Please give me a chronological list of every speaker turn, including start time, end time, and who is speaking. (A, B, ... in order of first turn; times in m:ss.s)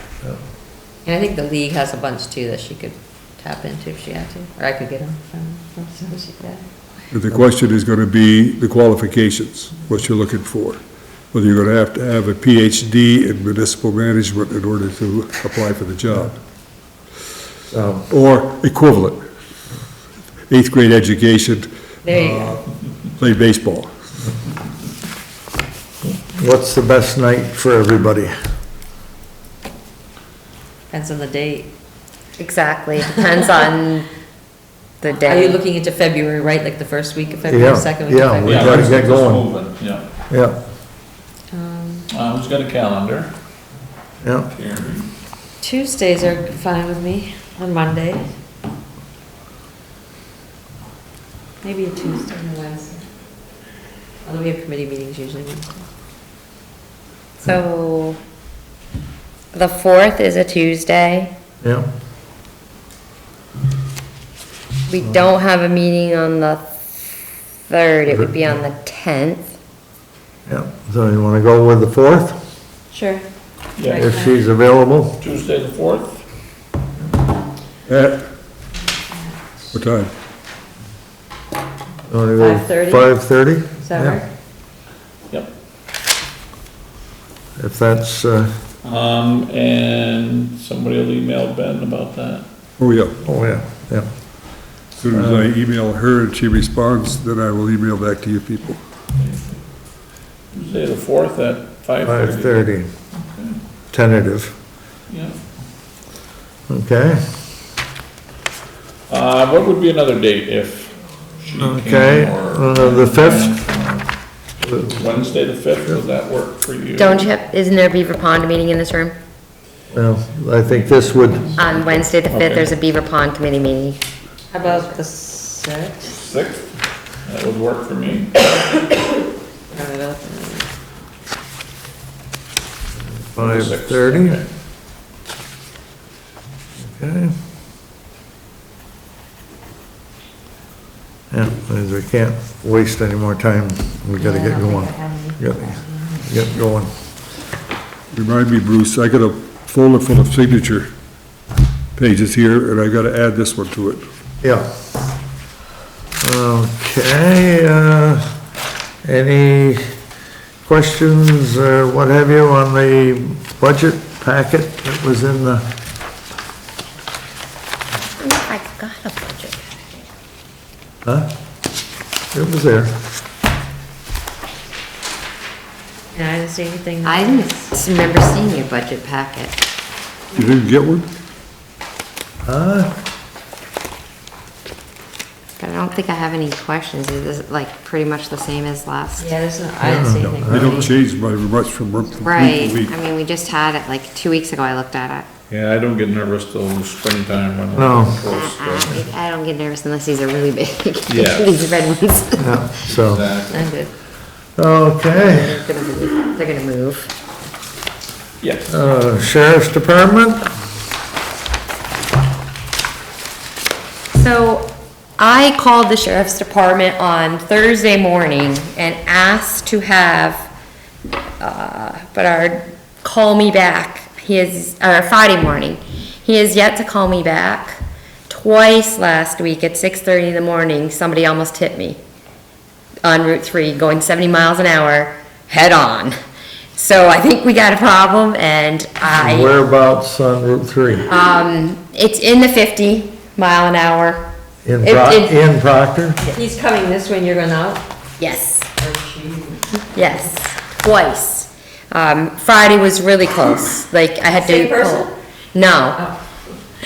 0:01.0-0:06.6 A
0:07.1-0:16.4 B
0:17.7-0:18.1 C
0:18.1-0:19.2 B
0:20.5-0:22.6 B
0:22.0-0:22.6 A
0:23.2-0:23.9 B
0:26.0-0:28.3 C
0:30.9-0:31.7 A
0:32.4-0:34.1 D
0:35.0-0:35.6 D
0:35.2-0:39.0 A
0:37.5-0:39.5 C
0:38.4-0:40.1 E
0:38.5-0:39.0 B
0:40.3-0:40.6 C
0:41.5-0:42.1 A
0:42.1-0:43.3 E
0:44.2-0:44.5 C
0:44.5-0:45.1 E
0:45.6-0:48.2 A
0:51.6-0:53.1 A
0:54.2-0:55.8 A
0:57.4-0:58.2 D
0:59.5-1:01.3 D
1:01.6-1:01.9 C
1:04.9-1:06.9 D
1:07.7-1:09.6 D
1:10.5-1:12.4 C
1:12.9-1:13.2 A
1:13.8-1:14.2 E
1:13.8-1:14.3 A
1:14.0-1:15.2 C
1:15.2-1:16.2 E
1:17.9-1:18.3 B
1:18.9-1:19.7 A
1:19.7-1:20.1 B
1:22.1-1:24.2 C
1:22.4-1:23.1 A
1:23.8-1:24.3 A
1:27.6-1:28.6 C
1:28.8-1:32.5 E
1:32.8-1:33.2 B
1:33.2-1:34.1 C
1:35.0-1:38.8 B
1:35.1-1:35.5 C
1:39.2-1:39.6 E
1:40.5-1:43.6 E
1:42.0-1:42.9 C
1:43.9-1:44.6 C
1:45.1-1:45.4 E
1:46.7-1:47.2 C
1:49.1-1:54.1 E
1:51.6-1:53.6 C
1:54.6-1:55.0 C
1:54.9-1:57.3 E
1:57.0-1:59.2 D
1:59.9-2:01.6 C
2:00.9-2:01.6 E
2:01.6-2:04.0 D
2:02.2-2:02.8 E
2:04.5-2:06.2 A
2:04.6-2:05.0 D
2:06.1-2:08.9 E
2:09.7-2:10.7 A
2:13.2-2:14.4 C
2:13.4-2:14.5 E
2:16.8-2:17.4 C
2:21.3-2:26.9 C
2:24.2-2:26.3 A
2:28.1-2:30.9 B
2:32.0-2:34.0 B
2:34.4-2:34.7 C
2:36.2-2:38.3 C
2:39.0-2:39.8 C
2:40.6-2:45.7 C
2:48.2-2:50.0 D
2:51.0-2:51.3 C
2:52.3-2:53.0 C
2:56.1-2:57.5 A
2:57.0-2:59.6 D
3:00.3-3:01.1 B
3:02.4-3:02.9 C
3:05.6-3:09.3 D
3:09.2-3:11.0 A
3:09.8-3:10.8 C
3:10.2-3:12.9 B
3:12.2-3:15.3 D
3:15.5-3:19.0 E
3:17.7-3:18.2 C
3:18.3-3:22.6 D
3:21.1-3:21.6 E
3:22.4-3:23.2 C
3:22.9-3:23.6 E
3:23.5-3:23.9 A
3:24.6-3:25.6 C
3:25.1-3:27.1 D
3:28.7-3:30.5 C
3:34.1-3:40.5 D
3:41.4-3:52.0 D
3:53.0-3:56.2 D
3:56.7-3:59.5 D
3:59.1-4:01.1 C
4:01.1-4:04.3 D
4:04.6-4:06.2 C
4:04.8-4:05.4 D
4:06.2-4:07.8 A
4:08.2-4:08.7 D
4:08.6-4:10.2 A
4:09.9-4:16.0 D
4:14.3-4:15.1 A